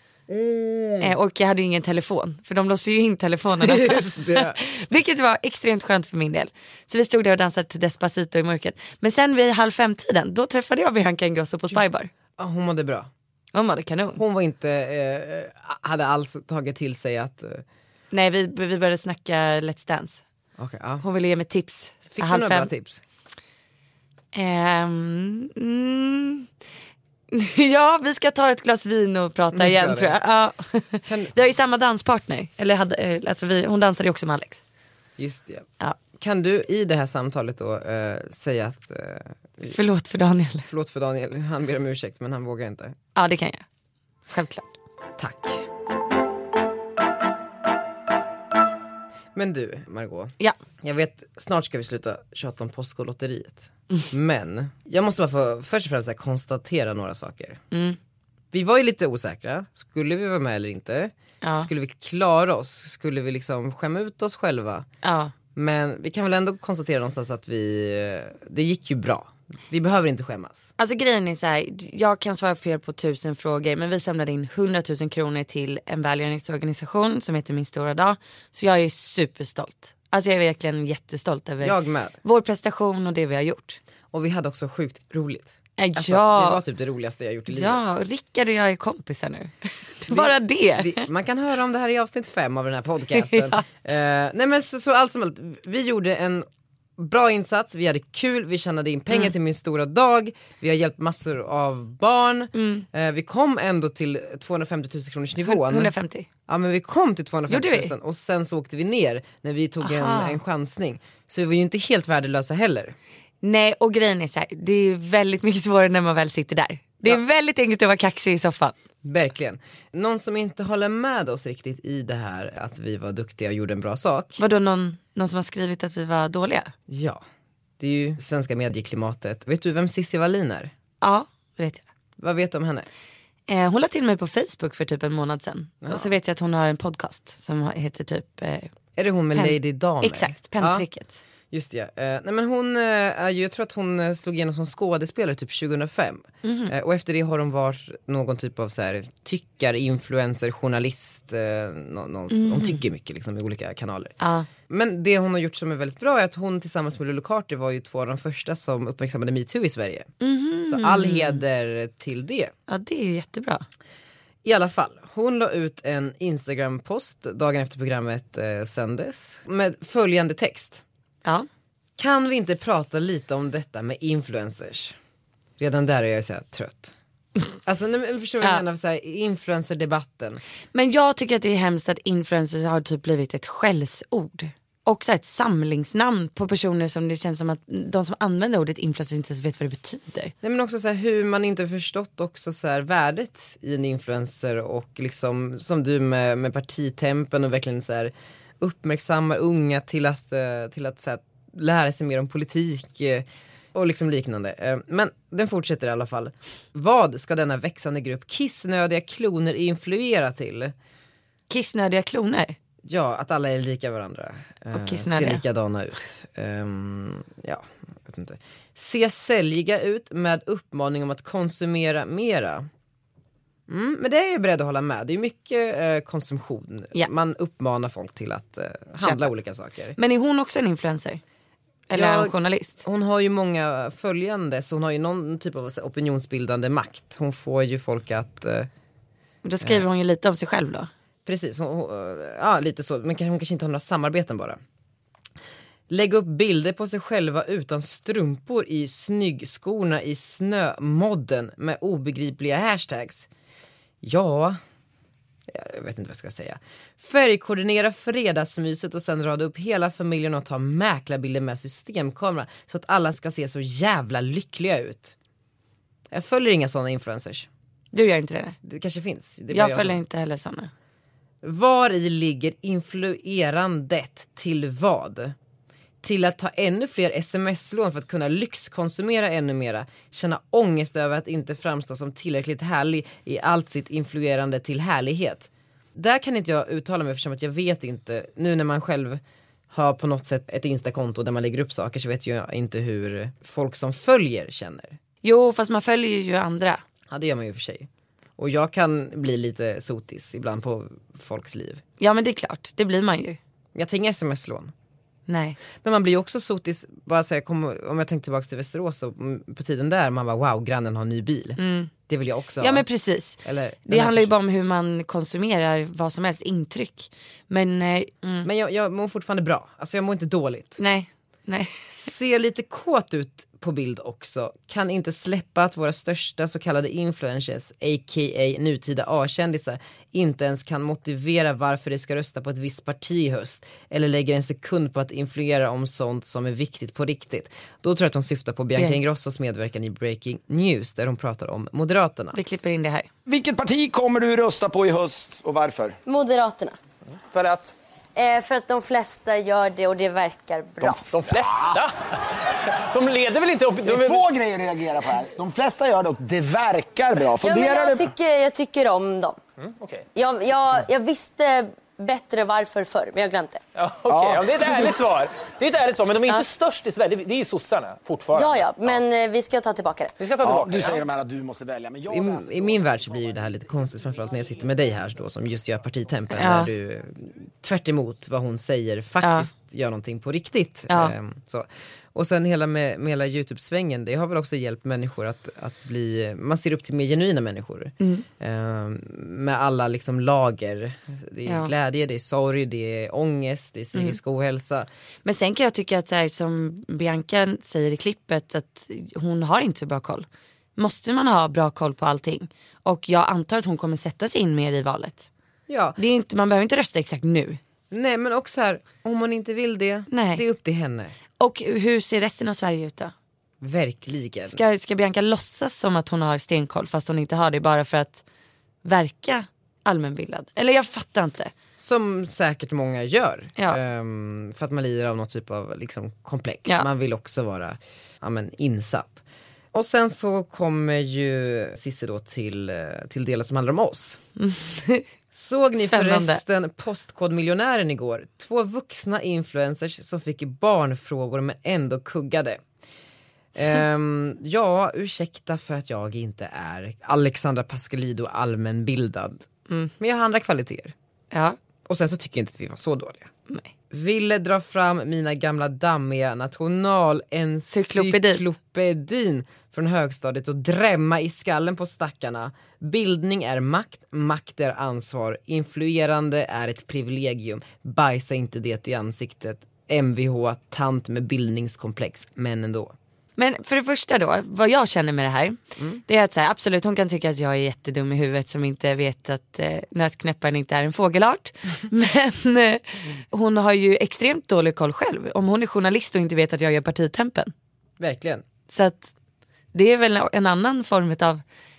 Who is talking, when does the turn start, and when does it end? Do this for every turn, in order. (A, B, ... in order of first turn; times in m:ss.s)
0:00.3-0:01.1 A
0:01.0-0:12.1 B
0:03.6-0:04.6 A
0:12.4-0:13.1 A
0:13.5-0:14.2 B
0:14.2-0:17.6 A
0:18.1-0:20.2 B
0:20.6-0:21.0 A
0:21.0-0:22.7 B
0:22.1-0:23.0 A
0:24.3-0:26.5 B
0:27.3-0:34.6 B
0:29.5-0:30.2 A
0:31.0-0:31.3 A
0:35.2-0:39.7 A
0:39.6-0:40.7 B
0:40.7-0:43.0 A
0:43.1-0:43.6 B
0:44.3-0:44.8 B
0:45.2-0:45.6 A
0:49.3-0:57.6 A
0:57.7-0:58.0 B
0:58.5-1:04.9 A
1:01.4-1:01.7 B
1:05.0-1:05.3 B
1:05.5-1:10.7 A
1:10.8-1:23.8 B
1:21.6-1:22.2 A
1:24.1-1:27.8 A
1:25.8-1:26.6 B
1:27.5-1:31.0 B
1:30.1-1:36.5 A
1:33.1-1:33.6 B
1:37.0-1:45.9 A
1:42.5-1:42.9 B
1:45.4-1:46.3 B
1:46.5-1:53.0 A
1:47.5-1:47.9 B
1:49.8-1:50.4 B
1:53.4-1:58.8 B
1:59.0-2:04.4 A
2:04.4-2:06.7 B
2:06.9-2:07.2 A
2:07.8-2:10.7 A
2:11.0-2:11.8 B
2:12.2-2:12.9 A
2:13.5-2:18.7 B
2:15.8-2:16.1 A
2:19.0-2:20.8 A
2:19.3-2:21.2 B
2:21.5-2:34.1 A
2:26.4-2:26.7 B
2:32.3-2:32.8 B
2:34.2-2:34.5 B
2:34.7-2:40.1 A
2:40.2-2:41.4 B
2:40.6-2:42.5 A
2:42.7-2:43.6 B
2:44.4-2:50.8 A
2:52.0-2:55.0 A
2:55.6-2:56.9 A
2:57.6-3:00.4 A
3:00.7-3:10.3 B
3:10.4-3:30.7 A
3:31.5-3:32.6 B
3:32.8-3:42.7 A
3:34.7-3:35.4 B
3:43.7-3:50.0 A
3:49.0-3:49.3 B
3:50.0-3:51.2 B
3:51.9-3:52.8 B
3:51.9-3:58.7 A
3:59.4-4:00.9 B
4:01.2-4:04.6 A
4:05.9-4:13.3 A
4:14.0-4:14.6 A
4:15.5-4:25.1 A
4:26.1-4:27.5 A
4:27.9-4:28.6 B
4:28.6-4:30.0 A
4:29.5-4:30.7 B
4:31.4-4:35.3 A
4:36.0-4:55.0 A
4:55.2-4:56.8 B
4:57.1-5:01.8 A
5:02.0-5:03.4 B
5:03.7-5:04.7 A
5:05.3-5:05.6 B
5:05.8-5:12.8 A
5:11.6-5:11.9 B
5:12.6-5:18.5 B
5:13.4-5:14.3 A
5:18.4-5:20.8 A
5:20.8-5:22.1 B
5:21.9-5:42.4 A
5:42.3-5:43.1 B
5:43.3-5:46.0 C
5:46.0-5:46.8 D
5:47.3-5:47.7 E
5:48.2-5:51.0 D
5:50.8-5:51.7 C
5:51.0-5:51.9 E
5:52.9-5:54.2 E
5:53.8-5:58.1 C
5:57.4-5:59.4 D
5:59.6-6:00.0 E
6:00.1-6:03.6 D
6:03.7-6:09.0 E
6:04.1-6:04.5 C
6:08.3-6:10.1 D
6:10.2-6:11.0 E
6:10.4-6:13.0 C
6:12.1-6:34.9 A
6:16.3-6:16.7 B
6:19.2-6:19.5 B
6:20.9-6:21.1 B
6:28.0-6:28.2 B
6:31.4-6:31.7 B
6:35.2-6:45.3 B
6:45.7-6:46.0 A
6:46.0-6:47.6 B
6:47.9-6:51.2 A
6:50.1-6:50.4 B
6:51.4-6:53.1 B
6:53.6-6:54.6 A
6:54.5-6:58.2 B
6:58.8-7:01.5 B
7:01.8-7:14.2 A
7:14.4-7:15.0 B
7:15.3-7:22.6 A
7:15.8-7:16.4 B
7:23.5-7:29.4 A
7:30.0-7:30.9 A
7:31.3-7:31.6 B
7:31.9-7:33.3 A
7:33.9-7:52.9 A
7:37.7-7:38.4 B
7:53.4-8:07.5 B
8:08.0-8:08.4 A
8:08.7-8:09.1 B
8:09.7-8:11.4 B